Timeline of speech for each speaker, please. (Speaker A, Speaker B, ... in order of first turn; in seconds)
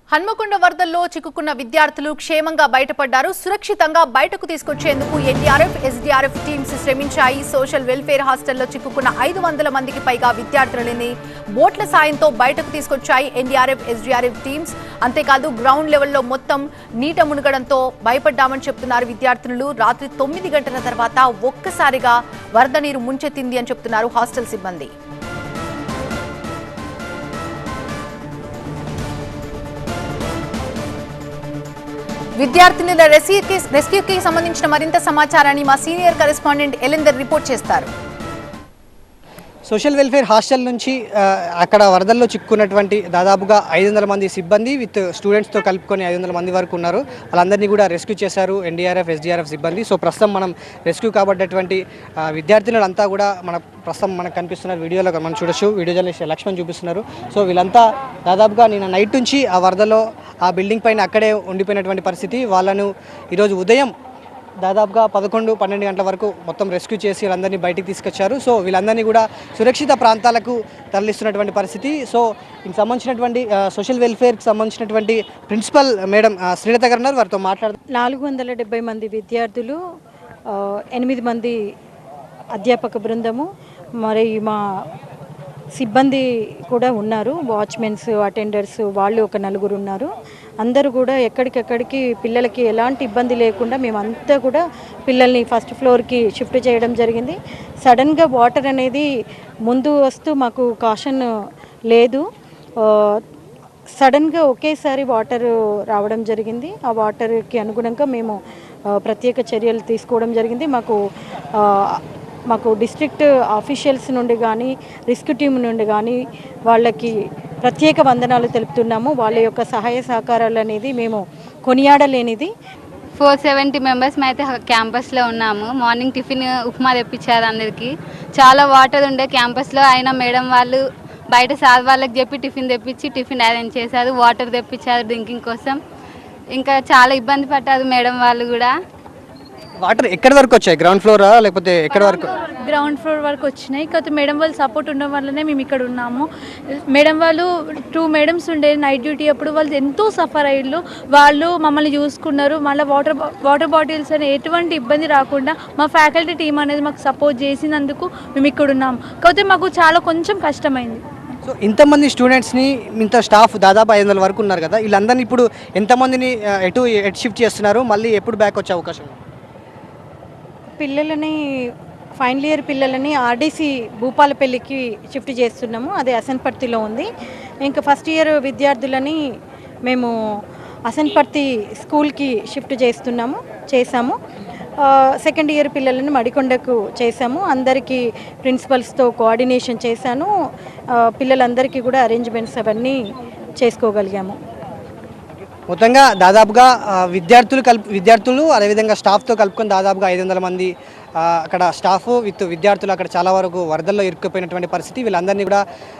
Speaker A: 0.1-24.9, 32.4-37.9
Speaker B: 39.7-63.9, 64.6-77.7, 139.8-142.3, 161.4-169.1, 195.7-205.6
Speaker C: 77.9-79.8, 80.5-81.6, 82.5-83.5, 84.0-84.6, 85.7-90.1, 90.6-99.1, 99.7-101.3, 101.9-102.2, 102.8-103.2, 104.0-108.4, 108.9-111.0, 111.6-112.0, 112.5-117.1, 117.6-122.5, 170.8-171.3, 172.2-177.1, 177.6-179.2, 179.9-180.1, 180.9-184.1, 184.8-190.3, 191.0-193.0, 193.6-194.3
Speaker D: 123.2-135.8, 136.5-138.7
Speaker E: 142.6-146.2, 146.9-161.0